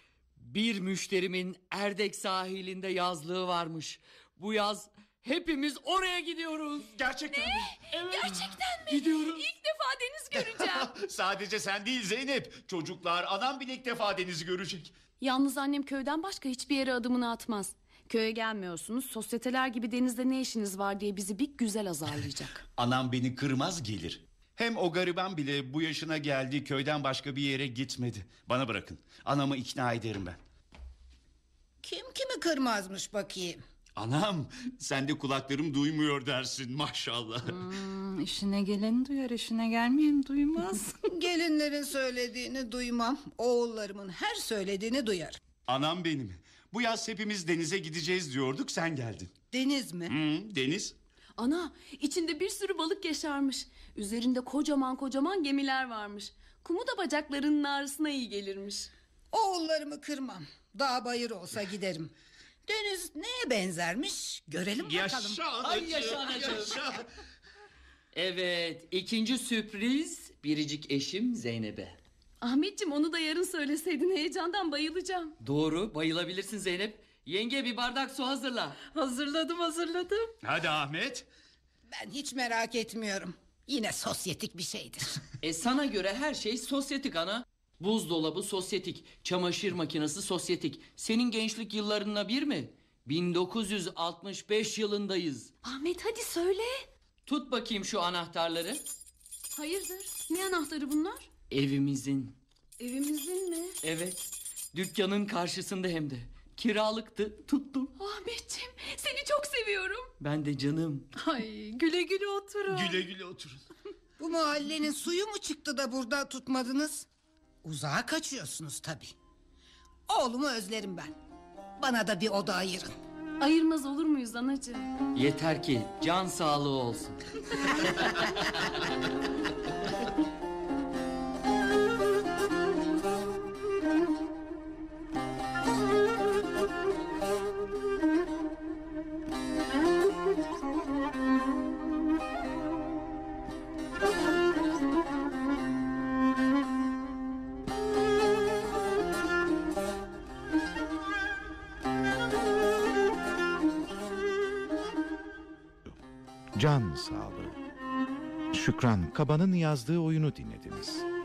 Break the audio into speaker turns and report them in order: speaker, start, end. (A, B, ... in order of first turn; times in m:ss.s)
0:00.4-0:07.0 A
0:06.9-0:08.3 B
0:07.3-0:10.9 C
0:08.9-0:09.4 A
0:10.4-0:14.9 B
0:15.2-0:22.6 C
0:22.8-0:30.4 B
0:31.8-0:33.6 D
0:34.0-0:37.6 B
0:37.5-0:41.0 E
0:41.1-0:45.4 D
0:45.7-0:49.3 B
0:49.5-0:50.2 D
0:50.1-0:51.0 B
0:51.4-0:58.9 C
0:59.3-1:02.1 D
1:02.7-1:05.4 D
1:04.8-1:07.1 B
1:05.6-1:06.8 A
1:08.1-1:12.0 A
1:12.4-1:15.4 C
1:15.4-1:18.8 A
1:18.9-1:20.4 E
1:20.4-1:21.3 B
1:21.9-1:25.2 D
1:25.4-1:35.5 A
1:35.6-1:36.8 C
1:37.3-1:38.8 A
1:39.5-1:41.3 C
1:41.5-1:42.4 A
1:42.8-1:43.8 C
1:43.8-1:47.9 A
1:48.0-1:50.1 C
1:50.2-1:51.1 A
1:51.2-1:53.1 E
1:52.7-1:53.6 B
1:54.2-1:57.1 D
1:57.6-1:59.1 D
2:00.1-2:01.2 D
2:01.8-2:02.9 D
2:03.4-2:04.9 C
2:05.1-2:08.6 A
2:36.5-2:37.6 F
2:38.5-2:41.1 F